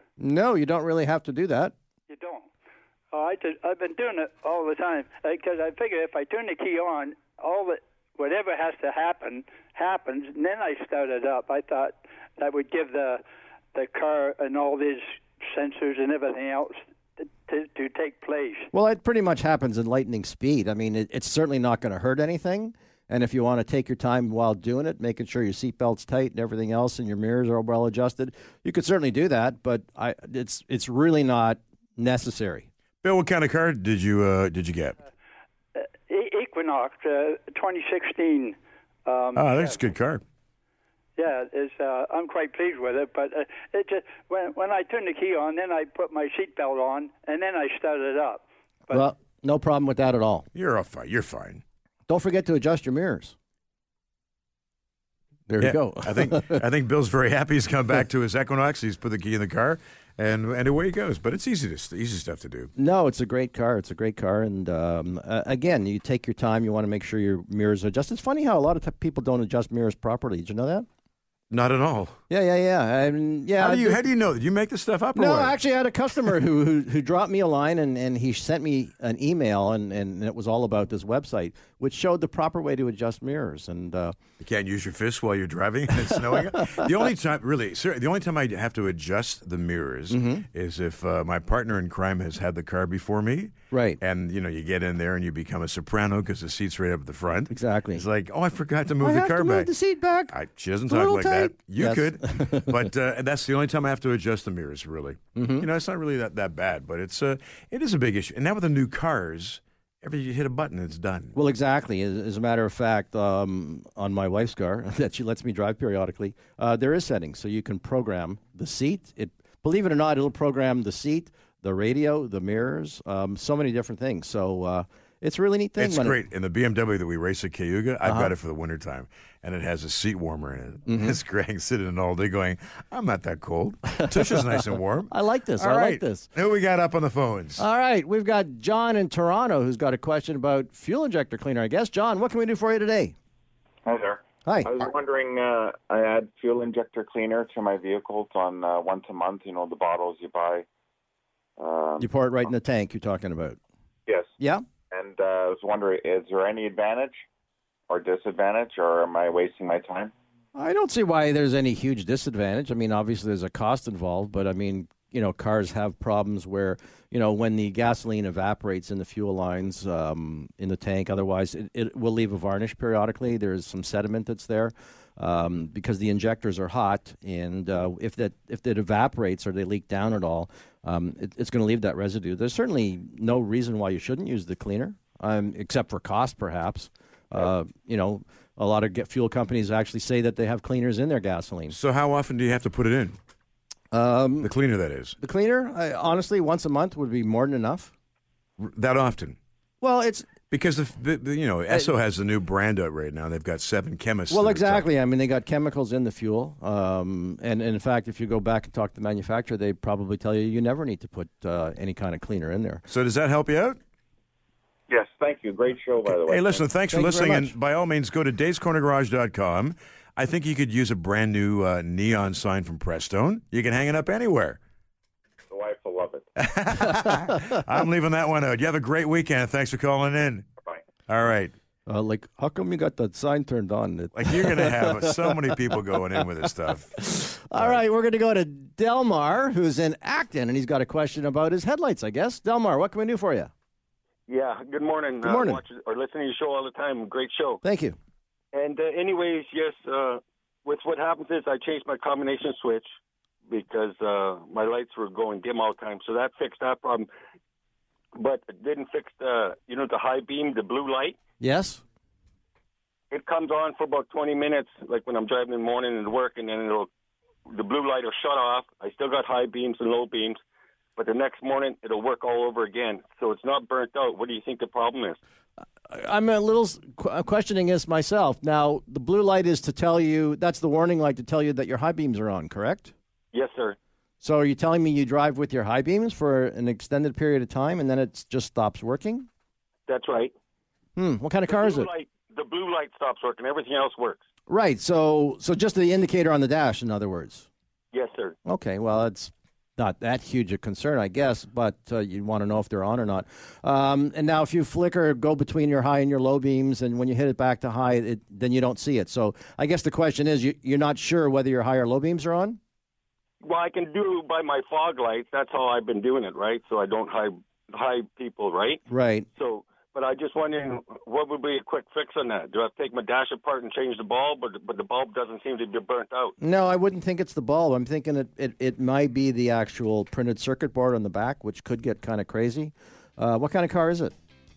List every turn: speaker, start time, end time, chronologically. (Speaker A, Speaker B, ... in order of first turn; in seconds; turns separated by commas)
Speaker A: 0.2-1.7, Speaker B: 2.1-2.5, Speaker B: 3.1-13.2, Speaker B: 13.7-16.8, Speaker B: 17.4-18.7, Speaker A: 18.7-32.7, Speaker C: 33.0-35.0, Speaker B: 36.1-39.7, Speaker C: 39.4-40.2, Speaker B: 41.2-49.0, Speaker A: 48.9-50.5, Speaker C: 50.5-51.6, Speaker A: 52.1-53.4, Speaker A: 55.5-56.6, Speaker C: 55.6-62.7, Speaker A: 62.8-70.9, Speaker C: 71.5-72.2, Speaker A: 72.3-74.0, Speaker C: 73.6-75.6, Speaker A: 75.2-84.2, Speaker C: 84.4-99.7, Speaker A: 90.1-90.5, Speaker A: 93.7-94.0, Speaker A: 97.5-98.0, Speaker A: 99.0-100.3, Speaker C: 100.3-111.4, Speaker A: 100.9-102.8, Speaker A: 105.4-105.7, Speaker A: 111.3-126.2, Speaker C: 125.8-137.7, Speaker A: 128.1-128.3, Speaker A: 130.9-131.2, Speaker A: 134.1-134.4, Speaker A: 135.1-136.3, Speaker A: 137.6-143.2, Speaker D: 143.8-150.7, Speaker A: 144.4-144.7, Speaker D: 151.6-152.1, Speaker A: 152.0-153.6, Speaker D: 154.1-154.3, Speaker A: 154.4-154.6, Speaker D: 154.9-157.2, Speaker D: 157.9-160.1, Speaker A: 160.6-191.8, Speaker C: 191.7-193.2, Speaker A: 193.9-194.5, Speaker C: 194.4-195.2, Speaker A: 195.2-197.9, Speaker C: 198.6-199.4, Speaker A: 199.8-200.3, Speaker C: 200.5-204.9, Speaker A: 204.3-212.8, Speaker C: 212.9-213.8, Speaker D: 214.9-216.7, Speaker C: 216.0-224.6, Speaker A: 216.9-217.5, Speaker D: 225.5-226.3, Speaker C: 226.4-230.5, Speaker C: 231.1-231.5, Speaker A: 231.9-235.6, Speaker C: 234.2-237.8, Speaker A: 237.0-243.5, Speaker E: 244.3-247.6, Speaker A: 245.2-245.6, Speaker A: 247.6-248.0, Speaker E: 248.5-252.9, Speaker E: 253.5-257.1, Speaker E: 258.1-261.2, Speaker A: 261.4-261.8, Speaker E: 263.1-266.9, Speaker E: 267.5-270.4, Speaker E: 271.0-275.2, Speaker A: 275.9-282.9, Speaker E: 283.3-283.8, Speaker A: 284.2-289.3, Speaker E: 289.9-290.3, Speaker A: 291.0-291.9, Speaker E: 291.5-294.2, Speaker A: 294.5-297.5, Speaker E: 297.9-298.4, Speaker A: 298.5-312.6, Speaker E: 313.4-318.8, Speaker A: 318.9-319.3, Speaker E: 319.4-326.4, Speaker A: 326.4-334.1